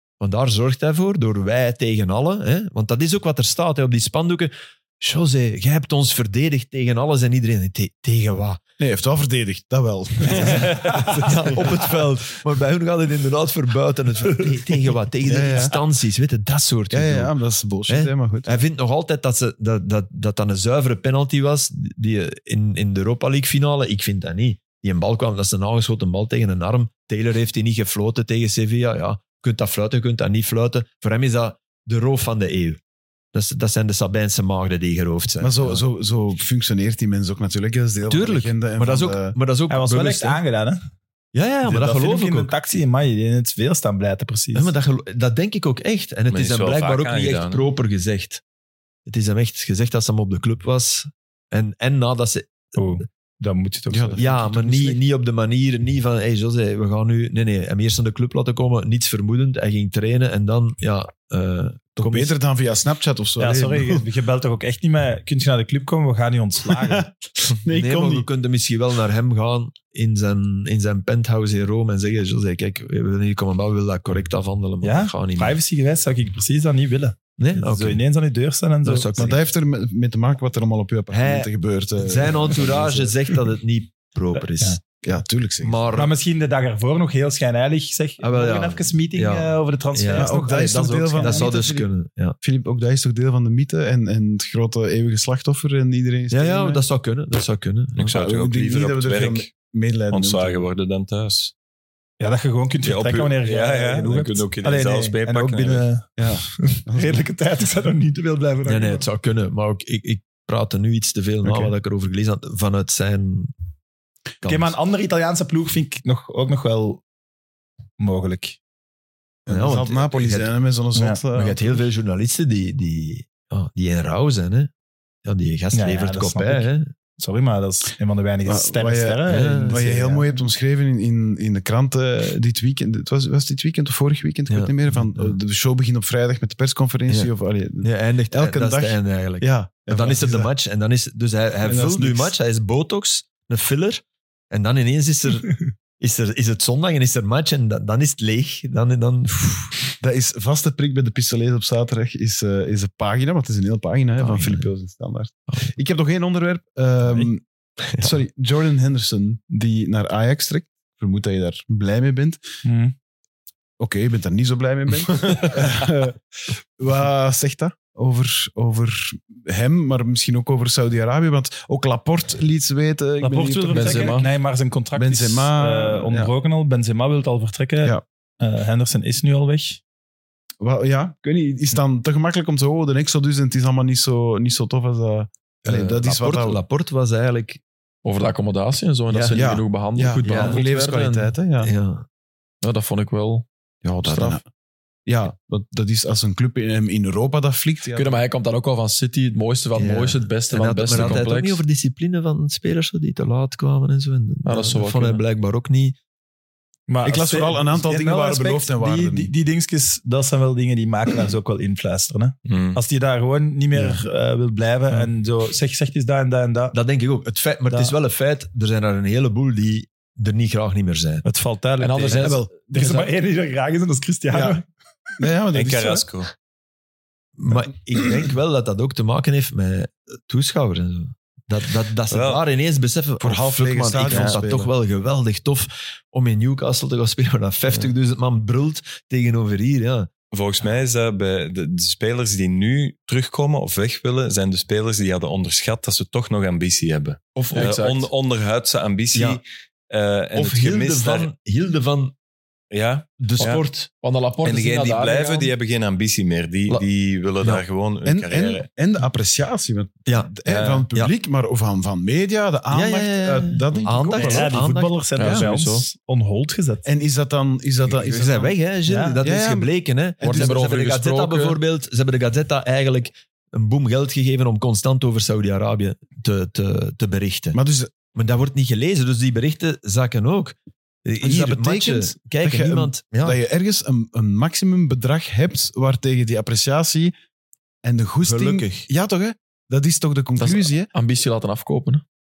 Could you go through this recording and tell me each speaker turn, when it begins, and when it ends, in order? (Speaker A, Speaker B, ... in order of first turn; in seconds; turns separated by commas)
Speaker A: 0.2-8.6, Speaker B: 8.8-12.0, Speaker A: 10.4-17.3, Speaker B: 15.2-15.8, Speaker B: 16.9-18.6, Speaker A: 17.9-32.8, Speaker A: 33.3-35.8, Speaker B: 35.4-39.3, Speaker A: 38.1-40.4, Speaker C: 39.7-40.8, Speaker A: 41.3-42.5, Speaker C: 41.6-44.7, Speaker A: 44.5-48.4, Speaker D: 46.3-47.6, Speaker A: 49.1-52.7, Speaker C: 52.7-55.0, Speaker B: 53.9-54.9, Speaker A: 54.2-61.9, Speaker B: 62.0-64.1, Speaker C: 62.0-62.3, Speaker C: 63.4-67.1, Speaker B: 66.7-68.3, Speaker A: 67.7-75.6, Speaker C: 74.8-79.2, Speaker A: 77.4-78.0, Speaker A: 78.8-79.4, Speaker B: 79.2-83.2, Speaker A: 81.1-84.8, Speaker B: 85.0-86.1, Speaker A: 85.6-86.1, Speaker C: 85.9-91.5, Speaker A: 88.2-90.6, Speaker B: 90.2-96.8, Speaker A: 91.2-92.4, Speaker A: 96.3-98.1, Speaker D: 98.0-99.5, Speaker B: 98.1-100.6, Speaker D: 100.1-101.5, Speaker C: 102.2-109.1, Speaker D: 102.8-105.8, Speaker B: 106.2-107.2, Speaker A: 108.7-113.5, Speaker C: 111.4-111.7, Speaker A: 114.4-114.7, Speaker C: 114.4-117.0, Speaker C: 118.0-118.6, Speaker B: 119.5-121.8, Speaker A: 119.5-120.5, Speaker A: 121.3-124.7, Speaker A: 125.2-126.9, Speaker C: 125.7-130.3, Speaker B: 128.4-140.5, Speaker A: 129.2-129.8, Speaker A: 134.5-135.3, Speaker A: 137.8-149.6, Speaker B: 141.6-142.3, Speaker B: 150.0-157.4, Speaker A: 154.2-154.7, Speaker B: 158.0-162.4, Speaker C: 162.6-162.9, Speaker B: 163.8-166.2, Speaker B: 166.8-174.3, Speaker C: 173.2-179.8, Speaker E: 173.7-174.3, Speaker B: 174.9-176.3, Speaker B: 180.6-186.6, Speaker A: 185.6-187.6, Speaker E: 188.0-191.3, Speaker A: 189.1-189.5, Speaker B: 189.3-191.7, Speaker A: 190.1-190.6, Speaker A: 191.6-192.1, Speaker E: 192.6-193.5, Speaker B: 193.8-194.4, Speaker E: 194.1-194.4, Speaker B: 195.1-198.2, Speaker E: 197.9-201.6, Speaker A: 199.7-205.9, Speaker E: 204.4-205.2, Speaker C: 206.9-216.8, Speaker B: 207.0-209.3, Speaker D: 212.4-212.8, Speaker B: 213.7-214.0, Speaker A: 216.7-221.2, Speaker C: 217.7-217.9, Speaker C: 221.2-224.6, Speaker E: 221.8-222.4, Speaker B: 222.1-223.1, Speaker B: 224.3-224.6, Speaker B: 225.2-226.1, Speaker D: 225.5-226.3, Speaker A: 227.4-240.1, Speaker D: 232.1-232.4, Speaker B: 233.2-234.7, Speaker D: 234.0-234.4, Speaker D: 240.3-251.3, Speaker A: 247.3-247.8, Speaker E: 247.5-248.1, Speaker A: 249.1-249.4, Speaker A: 250.3-252.1, Speaker D: 252.7-253.6, Speaker A: 253.2-253.9, Speaker E: 253.4-255.5, Speaker D: 254.4-258.6, Speaker B: 258.0-264.6, Speaker A: 260.1-261.1, Speaker D: 260.5-260.9, Speaker A: 262.7-265.3, Speaker C: 264.1-266.8, Speaker E: 265.2-265.9, Speaker B: 266.8-268.5, Speaker A: 267.9-277.6, Speaker C: 268.9-269.2, Speaker B: 269.2-270.6, Speaker E: 270.2-271.6, Speaker B: 277.5-277.9, Speaker A: 278.1-283.4, Speaker B: 281.2-287.1, Speaker B: 287.8-290.9, Speaker A: 288.2-288.9, Speaker E: 290.4-292.0